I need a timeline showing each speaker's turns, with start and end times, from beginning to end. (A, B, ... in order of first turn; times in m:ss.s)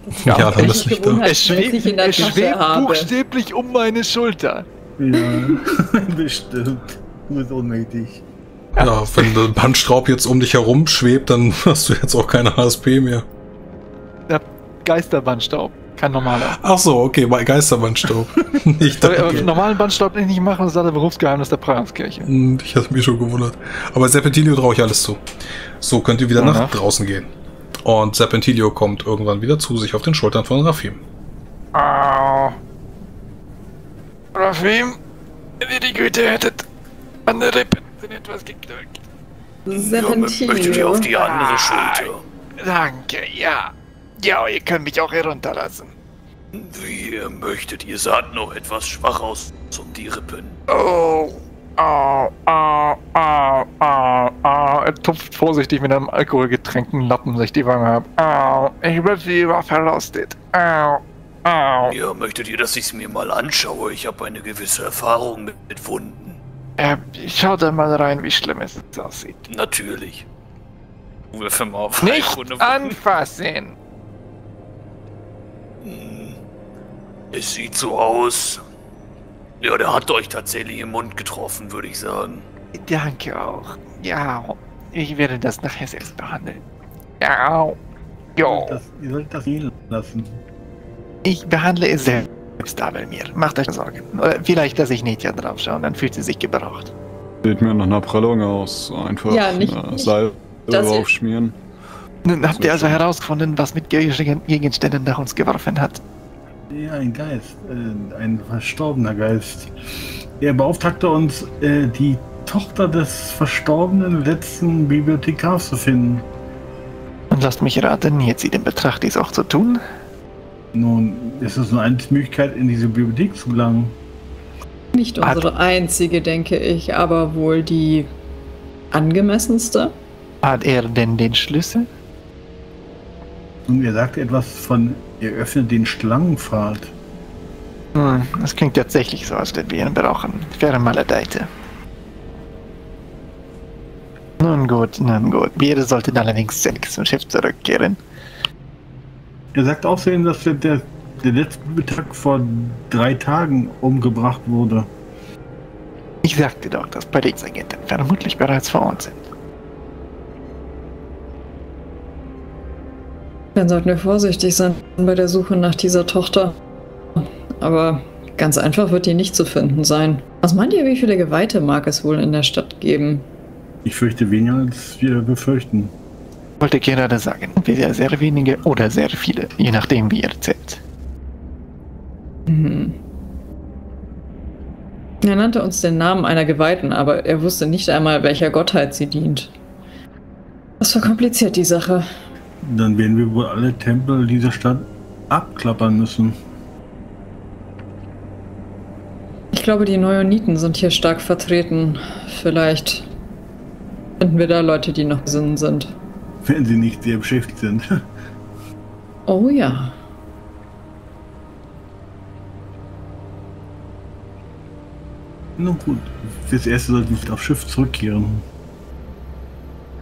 0:00.2-0:03.1 A
0:00.2-0:01.2 B
0:00.3-0:04.7 C
0:05.0-0:08.2 D
0:08.8-0:13.2 B
0:08.8-0:09.3 C
0:14.3-0:16.6 C
0:16.6-0:19.5 B
0:19.0-0:22.3 C
0:19.2-0:19.4 D
0:22.2-0:25.2 B
0:25.8-0:27.3 B
0:26.3-0:26.8 C
0:27.8-0:31.0 B
0:31.7-0:32.6 C
0:34.4-0:35.0 C
0:35.6-0:36.7 C
0:37.3-0:39.0 C
0:39.7-0:41.1 A
0:39.7-0:42.2 E
0:41.0-0:45.9 C
0:46.5-0:50.6 E
0:50.7-1:02.0 C
1:01.9-1:06.4 E
1:06.8-1:09.4 C
1:09.5-1:10.3 E
1:11.3-1:12.7 E
1:12.0-1:13.8 C
1:15.8-1:16.4 E
1:17.3-1:18.6 E
1:19.6-1:22.4 E
1:22.7-1:26.6 C
1:27.2-1:27.8 C
1:28.4-1:28.8 C
1:28.4-1:30.4 D
1:31.2-1:36.9 C
1:37.4-1:41.6 F
1:39.3-1:40.1 A
1:40.7-1:41.0 A
1:42.2-1:46.0 C
1:42.4-1:43.0 F
1:46.7-1:49.7 D
1:50.4-1:56.3 D
1:57.3-1:59.8 C
2:00.7-2:04.0 D
2:04.9-2:08.1 A
2:08.9-2:09.9 A
2:10.4-2:11.9 C
2:13.7-2:16.9 D
2:18.0-2:21.5 C
2:24.4-2:28.0 C
2:29.5-2:34.9 D
2:36.2-2:39.2 C
2:43.6-2:46.5 A
2:47.2-2:53.3 A
2:53.8-2:55.9 D
2:56.6-3:00.8 C
3:02.5-3:03.0 A
3:05.2-3:09.5 A
3:10.8-3:12.1 A
3:12.6-3:16.4 D
3:19.5-3:23.1 A
3:24.2-3:25.9 A
3:26.4-3:27.9 D
3:29.3-3:30.0 A
3:35.6-3:38.4 D